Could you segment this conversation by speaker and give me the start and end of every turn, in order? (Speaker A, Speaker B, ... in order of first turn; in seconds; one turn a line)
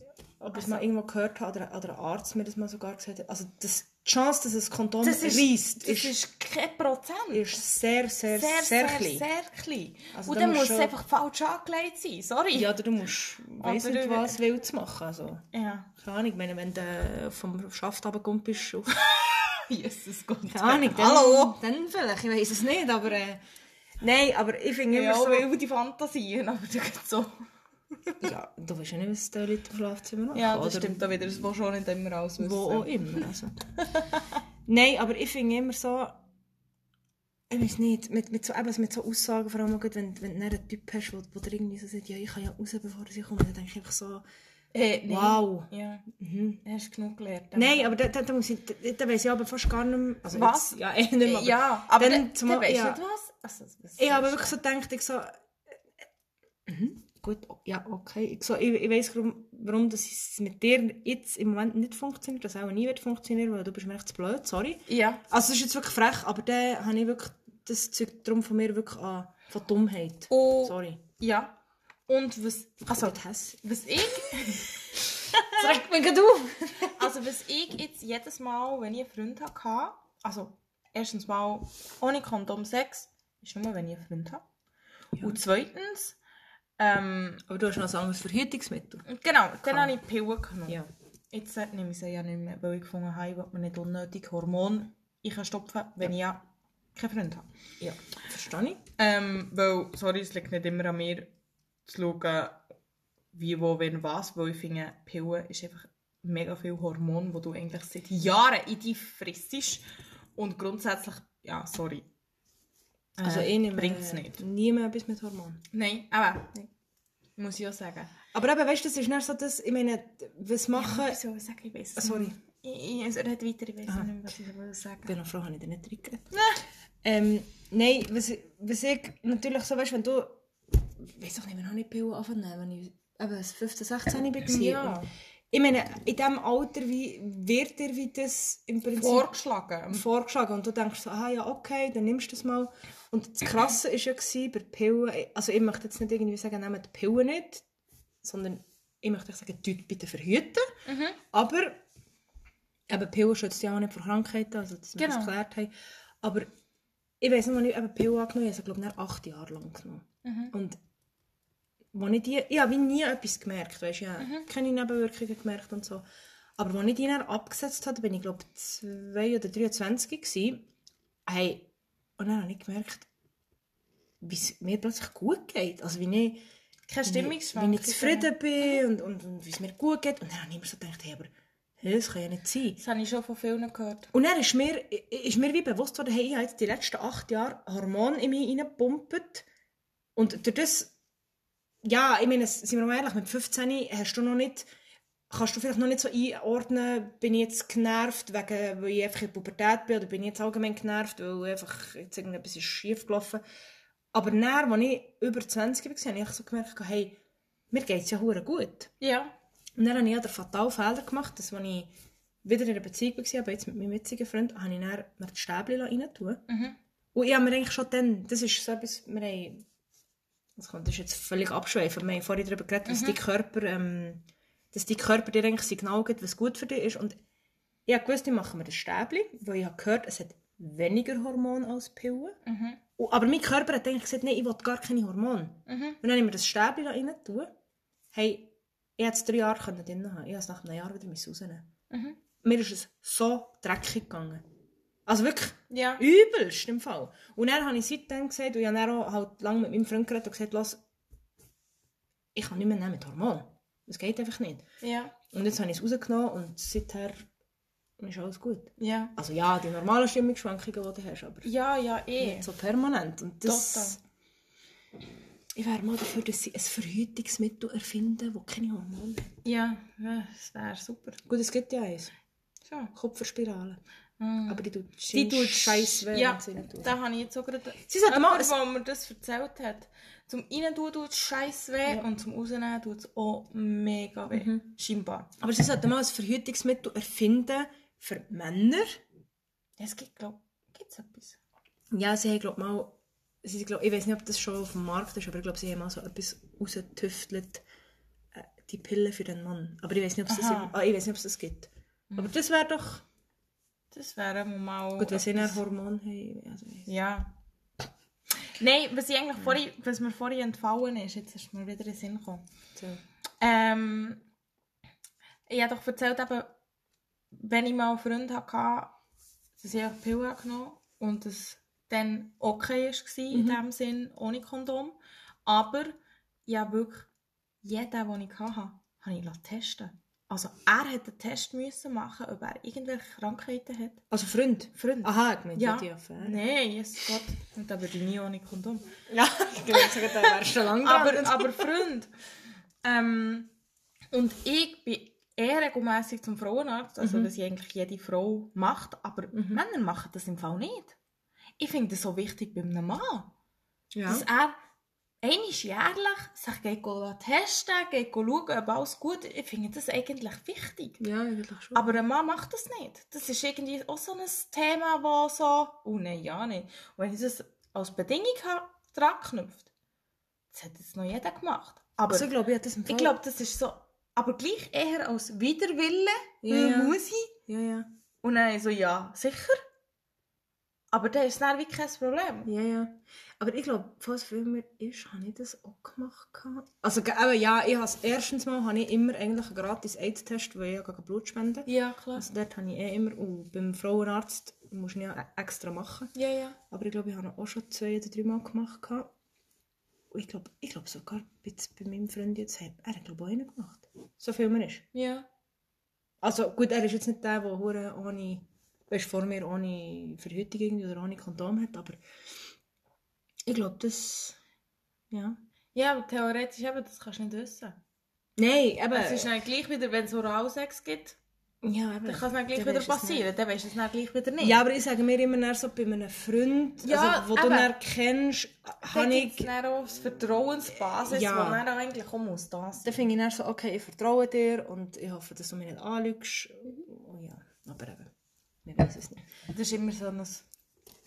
Speaker A: 0.4-6.1
Speaker B: 0.5-0.8
Speaker B: 5.0-7.4
Speaker A: 7.3-9.2
Speaker B: 8.3-12.7
Speaker A: 10.1-10.9
Speaker A: 12.5-15.4
Speaker B: 13.6-14.4
Speaker B: 15.5-15.9
Speaker A: 16.0-19.4
Speaker B: 19.5-21.6
Speaker A: 20.5-23.4
Speaker A: 24.0-25.5
Speaker B: 24.9-27.4
Speaker A: 28.2-31.2
Speaker B: 30.3-33.2
Speaker A: 32.4-33.5
Speaker B: 33.8-34.4
Speaker A: 34.6-36.2
Speaker A: 37.5-44.2
Speaker B: 44.7-46.0
Speaker A: 45.1-46.6
Speaker B: 46.6-47.9
Speaker A: 47.5-53.0
Speaker B: 50.3-54.6
Speaker A: 54.0-55.3
Speaker A: 56.6-71.0
Speaker B: 64.9-65.2
Speaker B: 70.3-71.5
Speaker B: 72.1-75.8
Speaker A: 73.0-73.4
Speaker A: 75.4-77.1
Speaker B: 76.8-84.4
Speaker B: 85.2-86.2
Speaker B: 86.8-87.4
Speaker A: 87.5-89.1
Speaker B: 89.1-90.8
Speaker A: 89.6-90.0
Speaker B: 91.3-96.4
Speaker B: 97.0-97.5
Speaker A: 97.8-98.8
Speaker B: 99.0-101.3
Speaker B: 101.8-102.6
Speaker B: 103.3-109.8
Speaker B: 110.3-112.0
Speaker B: 113.2-114.4
Speaker A: 113.2-115.6
Speaker B: 115.7-116.5
Speaker B: 117.4-118.1
Speaker A: 118.3-121.2
Speaker B: 120.7-125.1
Speaker A: 122.0-122.4
Speaker A: 125.0-126.3
Speaker B: 126.3-126.6
Speaker A: 127.0-139.3
Speaker B: 134.4-135.1
Speaker B: 139.0-140.0
Speaker A: 139.9-147.6
Speaker A: 148.2-150.7
Speaker B: 150.8-151.2
Speaker A: 151.3-151.8
Speaker A: 152.9-156.5
Speaker B: 155.0-155.3
Speaker A: 157.2-160.8
Speaker B: 160.2-160.5
Speaker A: 161.9-166.0
Speaker B: 164.2-164.5
Speaker A: 166.6-170.7
Speaker A: 171.2-173.1
Speaker A: 174.2-176.4
Speaker B: 176.9-178.8
Speaker A: 177.0-182.8
Speaker B: 182.8-184.1
Speaker A: 184.1-189.4
Speaker A: 190.2-190.9
Speaker A: 191.8-194.7
Speaker A: 195.3-203.4
Speaker A: 204.1-207.2
Speaker A: 207.7-208.9
Speaker B: 209.0-209.3
Speaker A: 209.8-211.9
Speaker A: 212.4-216.4
Speaker B: 216.5-216.8
Speaker A: 217.1-219.6
Speaker A: 220.6-227.2
Speaker B: 222.8-223.2
Speaker A: 227.9-232.4
Speaker B: 232.4-232.8
Speaker A: 233.0-237.5
Speaker B: 235.7-236.0
Speaker A: 238.1-241.7
Speaker B: 241.9-242.2
Speaker A: 242.4-244.4
Speaker A: 245.1-250.8
Speaker B: 245.7-246.0
Speaker A: 252.3-254.6
Speaker B: 254.8-255.1
Speaker A: 255.3-257.2
Speaker A: 258.0-261.5
Speaker B: 258.8-259.1
Speaker B: 261.4-262.5
Speaker A: 262.2-264.0
Speaker B: 263.4-264.0
Speaker A: 265.6-269.3
Speaker B: 269.4-271.2
Speaker A: 271.2-272.1
Speaker A: 272.9-273.8
Speaker B: 274.2-285.3
Speaker A: 274.5-276.9
Speaker A: 277.8-278.6
Speaker A: 284.3-284.6
Speaker A: 285.4-289.0
Speaker B: 289.8-291.4
Speaker A: 291.9-297.6
Speaker A: 298.3-303.0
Speaker B: 300.3-300.7
Speaker B: 303.9-305.6
Speaker A: 305.0-306.9
Speaker B: 306.9-307.3
Speaker B: 308.5-312.4
Speaker A: 312.8-313.0
Speaker B: 313.4-314.2
Speaker B: 315.5-316.5
Speaker B: 317.3-318.9
Speaker B: 319.6-325.9
Speaker A: 323.3-323.6
Speaker B: 326.5-327.1
Speaker B: 327.6-334.0
Speaker A: 334.1-336.4
Speaker B: 334.8-338.9
Speaker A: 339.1-341.8
Speaker B: 339.7-342.1
Speaker B: 342.8-343.5
Speaker B: 344.1-350.9
Speaker A: 347.0-347.3
Speaker A: 349.3-349.6
Speaker B: 351.6-353.3
Speaker A: 353.9-354.2
Speaker B: 354.1-354.6
Speaker B: 355.2-361.0
Speaker A: 361.0-361.9
Speaker B: 361.7-369.7
Speaker B: 370.5-372.3
Speaker A: 372.1-373.2
Speaker B: 372.9-377.3
Speaker A: 376.4-377.9
Speaker B: 378.2-379.6
Speaker B: 380.9-382.5
Speaker A: 382.4-396.1
Speaker B: 391.6-392.2
Speaker B: 396.1-396.6
Speaker A: 396.7-399.1
Speaker A: 400.1-404.8
Speaker B: 404.9-405.2
Speaker A: 406.2-412.0
Speaker A: 413.5-414.4
Speaker A: 415.1-415.4
Speaker B: 415.7-417.8
Speaker A: 418.4-419.3
Speaker B: 418.9-421.2
Speaker A: 421.6-423.2
Speaker B: 422.1-424.6
Speaker A: 424.4-429.5
Speaker B: 426.8-427.7
Speaker B: 428.9-433.0
Speaker A: 431.1-431.6
Speaker A: 432.8-438.1
Speaker A: 438.6-439.2
Speaker B: 439.5-440.4